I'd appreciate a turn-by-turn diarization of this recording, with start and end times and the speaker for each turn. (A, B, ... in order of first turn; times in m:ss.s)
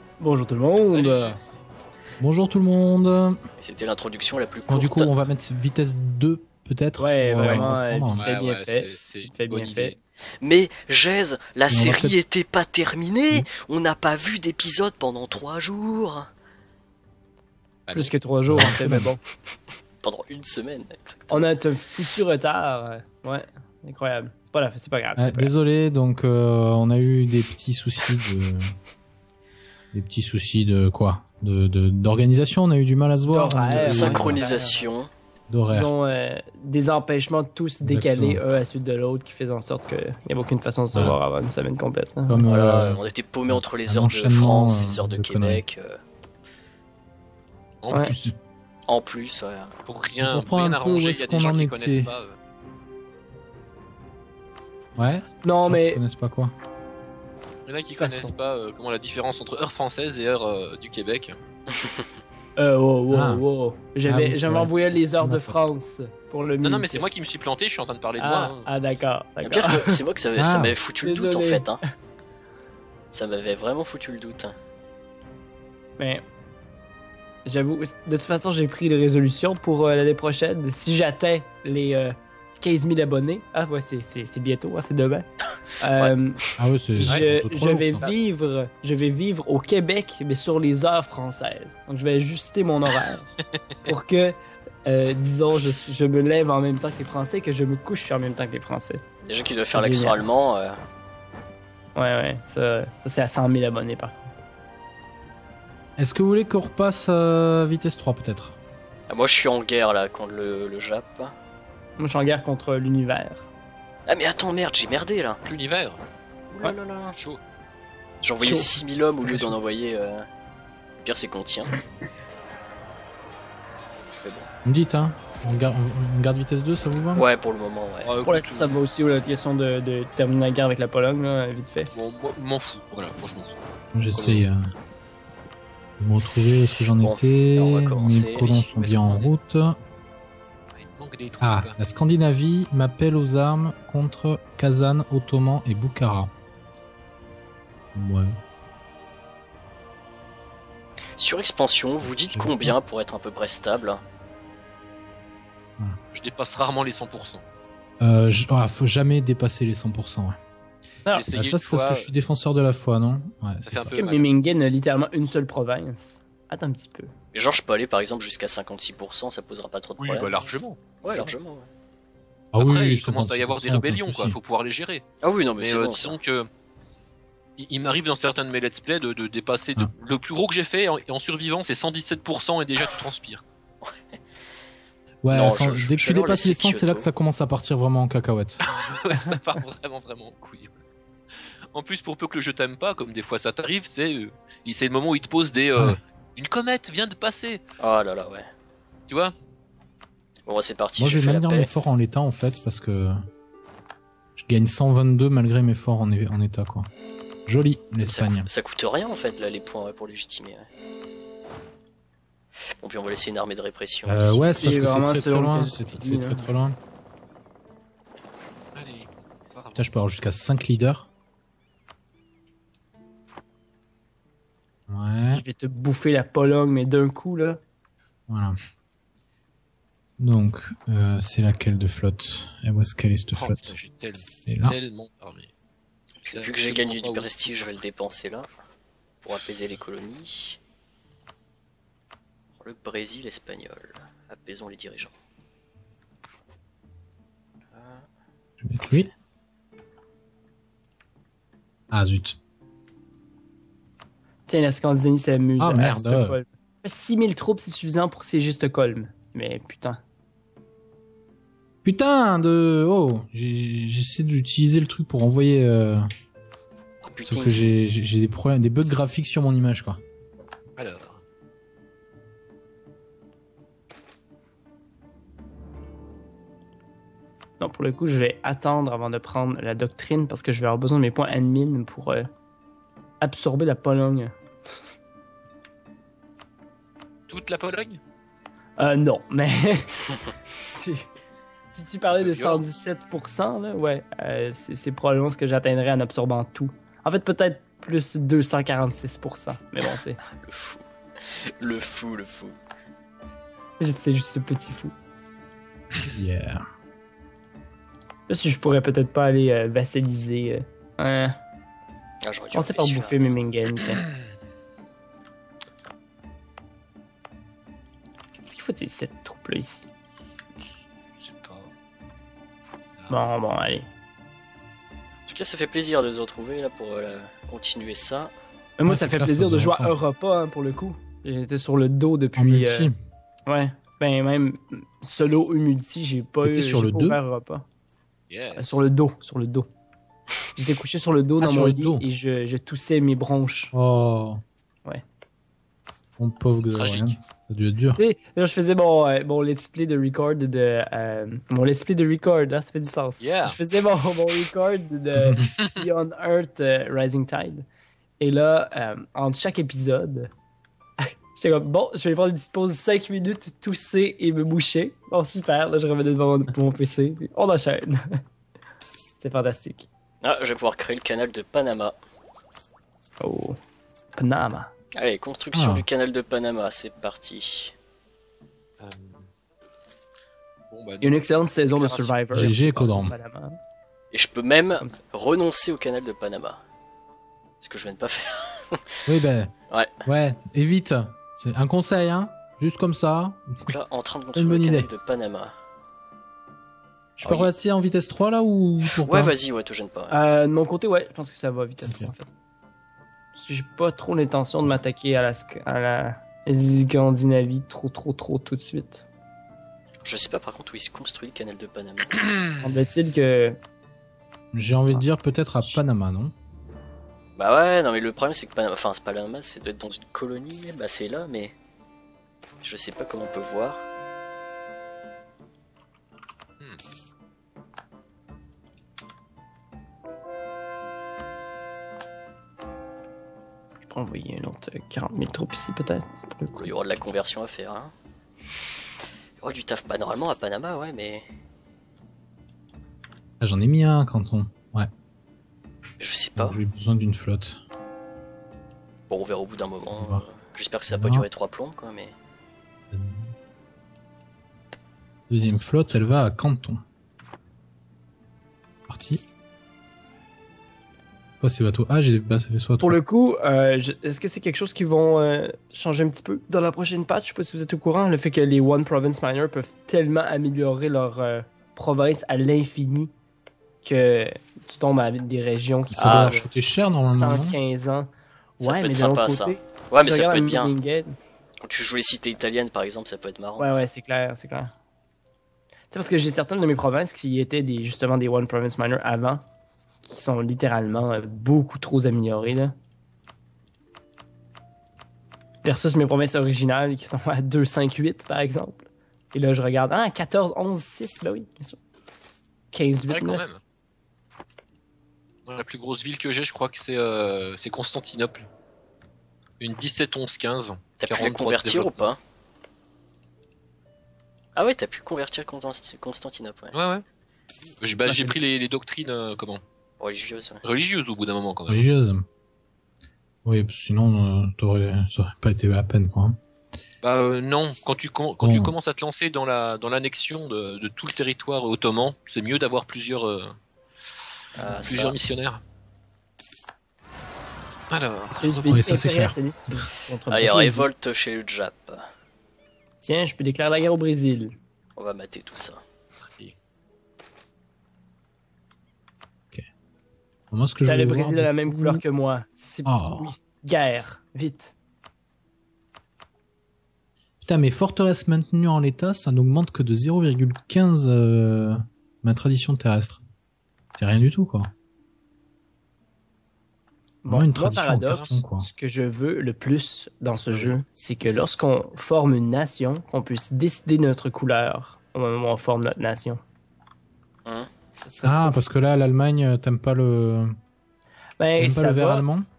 0:00.2-0:01.4 A
0:00.9-0:01.4 B
0:02.2-0:03.4 C
0:03.6-0:05.1 D
0:04.7-0:08.2 C
0:07.0-0:09.9 A
0:07.5-0:10.0 B
0:10.4-0:16.3 D
0:11.7-0:12.2 C
0:17.9-0:18.1 B
0:17.9-0:19.2 A
0:18.5-0:19.1 C
0:20.0-0:21.5 D
0:21.3-0:25.5 A
0:25.2-0:28.7 C
0:29.9-0:34.4 C
0:33.3-0:34.8 A
0:33.8-0:35.1 D
0:35.5-0:35.9 C
0:35.7-0:42.4 A
0:37.8-0:38.4 C
0:42.3-0:45.6 C
0:42.5-0:46.0 D
0:47.8-0:48.3 B
0:48.9-0:49.8 D
0:49.9-0:52.4 B
0:50.2-0:52.1 C
0:55.0-0:56.5 C
0:55.4-0:56.0 A
0:57.7-1:01.4 B
0:58.0-0:58.3 A
1:02.6-1:07.1 A
1:03.1-1:03.4 C
1:04.0-1:05.6 C
1:06.6-1:09.0 B
1:08.2-1:10.0 A
1:09.4-1:11.8 D
1:10.4-1:10.8 C
1:11.0-1:11.8 A
1:13.1-1:14.6 D
1:16.0-1:16.2 A
1:17.4-1:25.3 A
1:25.8-1:26.4 A
1:26.6-1:28.1 C
1:27.0-1:33.3 A
1:28.0-1:28.3 B
1:33.9-1:39.0 A
1:39.2-1:40.8 D
1:39.7-1:40.2 A
1:42.0-1:44.4 A
1:46.0-1:48.6 C
1:49.1-1:51.3 D
1:52.0-1:53.5 A
1:54.1-1:55.4 D
1:55.4-1:56.0 B
1:56.5-1:57.2 D
1:57.1-1:57.4 B
1:58.2-2:00.3 D
1:58.4-1:59.6 A
2:01.0-2:01.7 D
2:04.2-2:04.5 D
2:04.6-2:07.2 C
2:07.2-2:08.1 D
2:08.0-2:08.8 B
2:08.3-2:11.9 A
2:11.9-2:13.6 B
2:13.9-2:14.6 C
2:14.1-2:14.5 B
2:16.0-2:19.8 C
2:17.0-2:19.2 D
2:19.0-2:19.3 B
2:20.7-2:21.8 B
2:21.4-2:26.3 C
2:28.0-2:28.3 C
2:31.2-2:34.0 D
2:32.0-2:32.8 C
2:36.1-2:37.4 B
2:38.0-2:40.4 C
2:41.1-2:42.1 B
2:41.3-2:44.0 C
2:43.6-2:44.3 B
2:43.9-2:47.1 A
2:47.3-2:50.3 D
2:50.0-2:51.4 B
2:51.0-2:51.7 D
2:52.5-2:54.4 C
2:52.6-2:55.0 B
2:55.2-2:56.2 D
2:55.6-2:56.5 B
2:57.6-3:03.4 B
3:05.2-3:08.6 C
3:05.3-3:07.1 D
3:08.6-3:10.8 B
3:11.7-3:17.6 B
3:17.8-3:18.5 D
3:19.1-3:19.4 B
3:20.5-3:21.7 D
3:21.0-3:23.2 C
3:24.4-3:26.9 C
3:27.5-3:28.5 C
3:28.0-3:30.7 D
3:32.8-3:34.5 D
3:34.1-3:36.8 C
3:34.5-3:36.5 A
3:38.8-3:40.8 B
3:39.8-3:41.1 C
3:44.9-3:45.4 C
3:45.3-3:47.6 A
3:48.3-3:48.6 C
3:50.2-3:53.8 C
3:53.3-3:55.5 B
3:54.5-3:54.8 C
3:56.2-3:58.5 D
3:56.3-3:57.8 B
3:59.2-4:00.6 D
4:02.6-4:05.1 D
4:07.8-4:08.0 D
4:08.6-4:09.1 C
4:11.9-4:12.4 C
4:14.5-4:20.0 A
4:15.6-4:16.4 C
4:21.8-4:26.0 C
4:27.0-4:27.7 D
4:27.3-4:30.0 C
4:30.8-4:31.2 B
4:37.6-4:42.3 A
4:43.2-4:44.3 A
4:47.3-4:48.0 B
4:48.8-4:50.0 A
4:50.6-4:51.1 A
4:51.7-5:00.2 A
4:52.2-4:52.6 B
5:00.2-5:02.6 D
5:03.8-5:05.0 A
5:06.1-5:06.6 C
5:08.3-5:11.3 A
5:12.2-5:13.4 D
5:12.5-5:14.0 A
5:18.4-5:19.9 A
5:21.2-5:21.7 B
5:23.1-5:23.9 A
5:25.3-5:28.3 D
5:28.8-5:32.9 A
5:28.8-5:30.0 C
5:32.4-5:33.0 C
5:33.5-5:37.7 A
5:36.4-5:37.2 C
5:38.3-5:38.9 B
5:38.6-5:39.7 A
5:40.6-5:43.7 A
5:41.4-5:42.1 C
5:43.7-5:44.4 C
5:46.2-5:48.0 C
5:46.7-5:47.2 B
5:48.0-5:57.7 A
5:53.2-5:53.6 B
5:55.2-5:55.5 C
5:58.2-6:00.3 A
6:01.0-6:08.0 A
6:09.2-6:09.9 A
6:10.2-6:12.0 D
6:13.2-6:13.6 A
6:14.2-6:14.7 A
6:15.0-6:17.7 D
6:15.5-6:15.9 C
6:18.8-6:19.3 B
6:20.7-6:21.2 B
6:21.0-6:23.6 A
6:21.7-6:23.0 B
6:22.3-6:23.2 C
6:24.1-6:26.6 D
6:27.6-6:28.9 D
6:29.1-6:33.7 C
6:29.7-6:30.0 D
6:33.7-6:35.6 D
6:34.3-6:34.9 C
6:37.2-6:39.3 C
6:37.2-6:37.5 D
6:39.0-6:40.2 D
6:40.1-6:42.3 A
6:41.9-6:42.1 C
6:43.3-6:49.0 A
6:50.0-6:52.2 D
6:52.2-6:52.4 B
6:52.6-6:53.6 A
6:54.5-6:56.3 C
6:54.9-6:55.8 A
6:57.4-7:01.6 D
7:02.6-7:03.8 D
7:13.8-7:16.7 A
7:16.6-7:17.9 D
7:19.4-7:21.3 D
7:23.4-7:24.9 C
7:26.0-7:26.6 D
7:26.4-7:27.6 C
7:29.1-7:32.1 D
7:30.0-7:30.3 C
7:30.9-7:31.3 C
7:32.9-7:33.3 C
7:35.3-7:36.8 C
7:38.9-7:39.2 C
7:41.4-7:43.0 C
7:42.8-7:53.1 A
7:53.8-7:56.5 A
7:55.9-7:57.6 C
7:56.0-7:56.4 D
7:57.0-8:01.2 A
7:58.6-8:00.7 D
8:01.6-8:03.8 D
8:03.6-8:04.7 A
8:05.9-8:09.4 A
8:10.0-8:12.7 A
8:15.6-8:21.8 A
8:22.7-8:23.4 A
8:23.1-8:23.6 B
8:25.5-8:28.5 B
8:29.6-8:32.1 B
8:31.0-8:32.2 D
8:34.6-8:36.7 D
8:36.7-8:37.0 B
8:37.8-8:39.6 B
8:38.1-8:38.4 A
8:40.0-8:40.6 D
8:40.6-8:41.9 B
8:41.7-8:42.2 C
8:43.4-8:46.4 C
8:47.0-8:53.6 B
8:48.4-8:48.8 C
8:54.6-8:54.9 A
8:54.6-8:55.2 D
8:54.8-8:55.6 B
8:57.9-8:58.9 B
8:58.4-9:00.9 A
8:58.7-8:59.9 C
9:00.3-9:02.0 D
9:03.0-9:04.5 A
9:05.0-9:05.8 D
9:06.2-9:06.6 B
9:10.5-9:12.0 C
9:10.8-9:14.7 A
9:12.8-9:13.3 C
9:17.4-9:23.2 C
9:24.0-9:24.7 C
9:27.2-9:36.4 A
9:27.3-9:28.7 C
9:28.1-9:28.4 B
9:37.9-9:38.6 A
9:38.2-9:40.6 C
9:41.4-9:42.2 A
9:41.6-9:42.5 C